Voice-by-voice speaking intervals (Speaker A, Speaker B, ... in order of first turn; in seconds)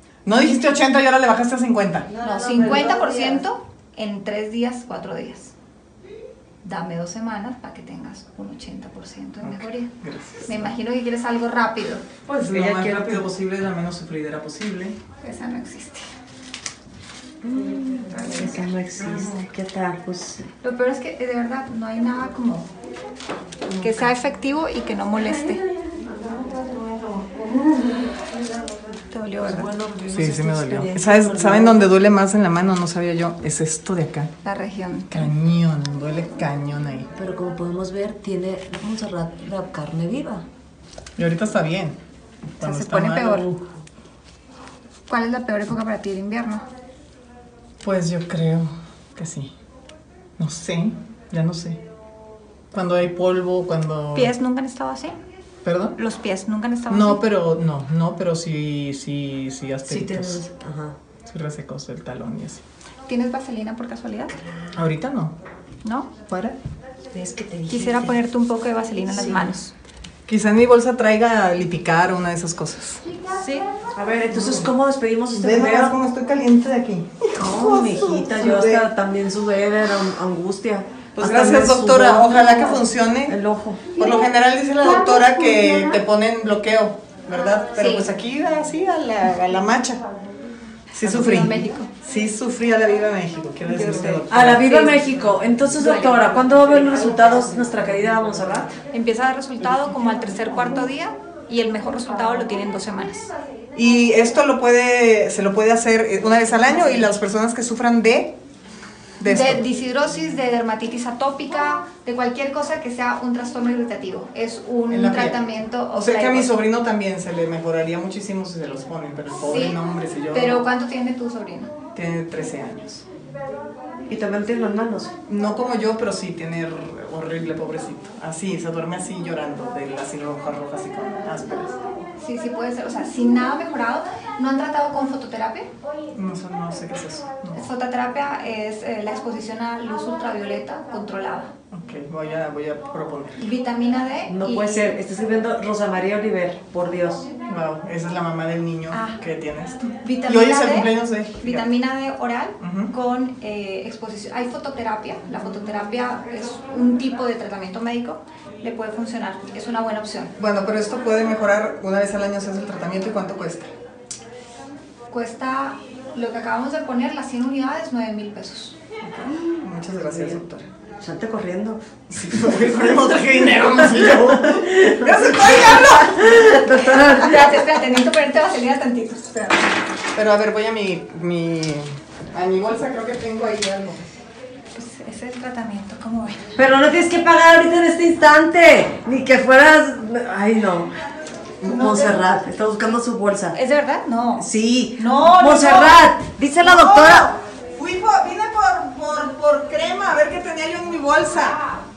Speaker A: 0.2-2.1, 9.4-10.7, 12.3-15.0, 23.7-23.9, 30.1-34.3, 35.1-37.1, 41.2-42.0, 42.6-43.5, 47.8-49.5, 50.4-51.8, 52.7-54.3, 55.6-56.0, 56.9-60.4, 61.2-62.6, 64.7-65.4, 66.3-66.6, 70.3-73.0, 74.3-74.7, 75.3-78.9, 81.2-83.4, 84.0-90.0, 91.0-94.7, 103.7-108.4, 109.2-109.6, 114.9-115.4, 116.0-120.7, 122.0-123.0, 125.3-131.8, 136.1-137.7, 141.7-143.4, 147.5-151.7, 152.6-152.9, 160.4-163.7, 169.0-170.7, 172.1-176.2, 180.1-184.0, 196.6-201.6
Speaker B: 2.1-3.4, 12.5-13.3, 17.4-20.4, 26.3-27.6, 29.4-31.9, 37.1-40.5, 59.9-61.0, 67.1-68.2, 69.1-69.5, 74.0-76.0, 77.4-83.9, 94.3-98.8, 124.1-125.1, 144.3-147.3, 170.1-170.4, 171.0-171.8, 172.3-177.6, 186.6-190.9, 191.6-193.6, 194.4-197.4
Speaker C: 2.2-5.5, 6.6-9.9, 10.5-12.1, 15.2-16.1, 18.1-18.7, 20.6-22.7, 23.8-25.6, 29.1-29.7, 34.4-35.3, 42.6-43.5, 45.1-46.6, 54.1-55.2, 56.0-57.2, 63.1-64.3, 65.8-66.1, 67.7-69.7, 73.3-73.7, 87.7-88.0, 91.0-91.9, 93.6-95.0, 95.8-96.5, 98.9-103.3, 109.2-116.5, 119.3-119.8, 120.3-121.7, 132.2-135.7, 137.5-141.5, 143.4-145.0, 148.9-149.2, 150.0-160.3, 165.1-168.8, 176.9-179.7, 184.7-186.5, 191.7-192.2, 193.5-196.0